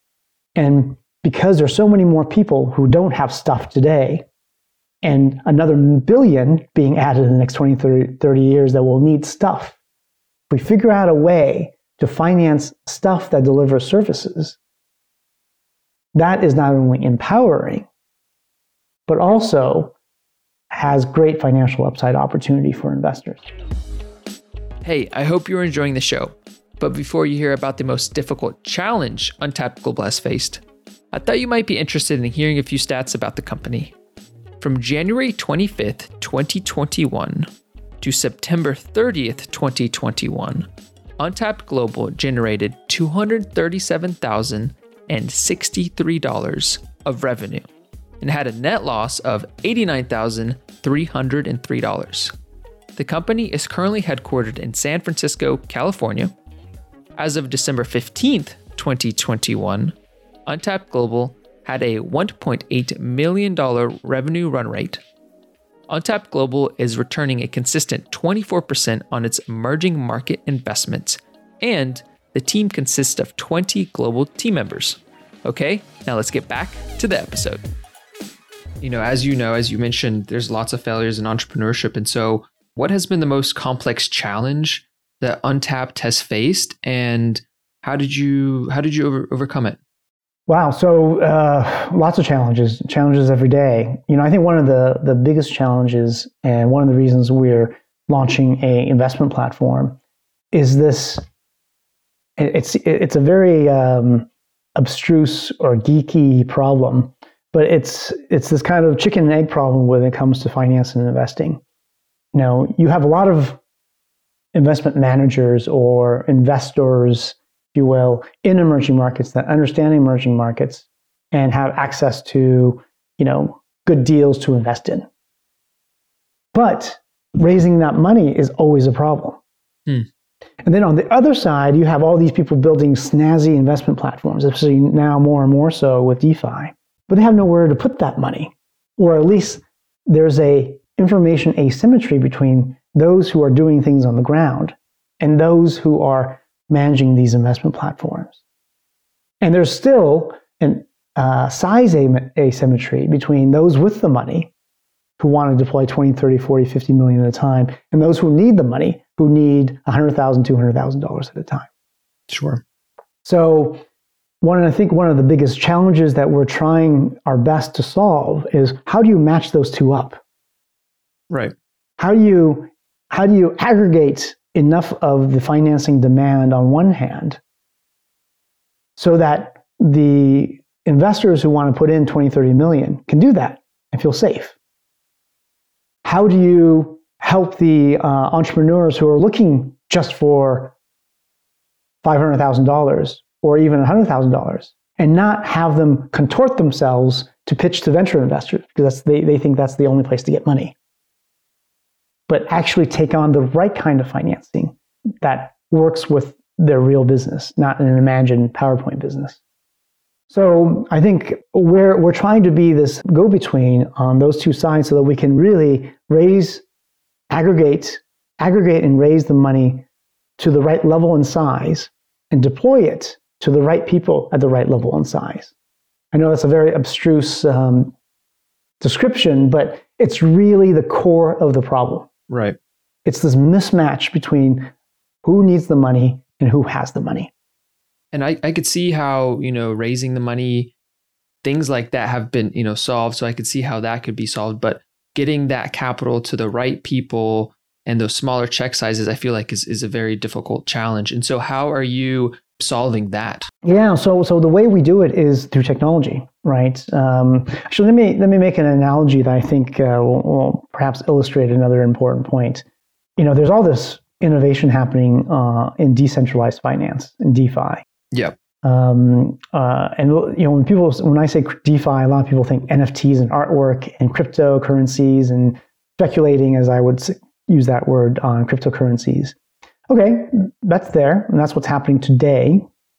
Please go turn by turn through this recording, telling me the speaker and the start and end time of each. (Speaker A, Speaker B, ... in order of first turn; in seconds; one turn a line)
Speaker A: 0.6-4.3
Speaker A: 5.0-9.8
Speaker A: 10.5-14.6
Speaker A: 16.1-17.9
Speaker A: 19.1-19.9
Speaker A: 20.7-23.4
Speaker B: 24.8-33.9
Speaker B: 34.6-37.5
Speaker B: 38.0-40.7
Speaker B: 41.2-47.7
Speaker B: 48.2-52.3
Speaker B: 53.0-56.3
Speaker B: 57.2-65.0
Speaker B: 65.9-77.6
Speaker B: 78.8-89.8
Speaker A: 90.5-100.0
Speaker A: 100.5-101.2
Speaker A: 102.4-111.6
Speaker A: 112.3-113.6
Speaker A: 114.5-125.1
Speaker A: 126.5-129.4
Speaker A: 130.6-148.4
Speaker A: 149.4-154.5
Speaker A: 155.2-161.7
Speaker B: 162.3-162.6
Speaker A: 163.2-163.8
Speaker A: 164.4-170.2
Speaker B: 171.3-171.5
Speaker A: 172.0-177.4
Speaker A: 179.0-184.6
Speaker A: 186.0-190.7
Speaker A: 192.0-200.7
Speaker A: 202.3-209.4
Speaker A: 210.3-216.6
Speaker A: 217.3-219.8
Speaker A: 220.4-225.5
Speaker A: 226.1-227.9
Speaker A: 228.8-232.1
Speaker B: 232.3-232.6
Speaker A: 233.1-234.7
Speaker A: 235.2-237.3
Speaker B: 238.1-240.7
Speaker B: 241.4-253.5
Speaker A: 253.6-262.6
Speaker A: 263.2-267.9
Speaker A: 268.6-279.4
Speaker A: 279.9-282.7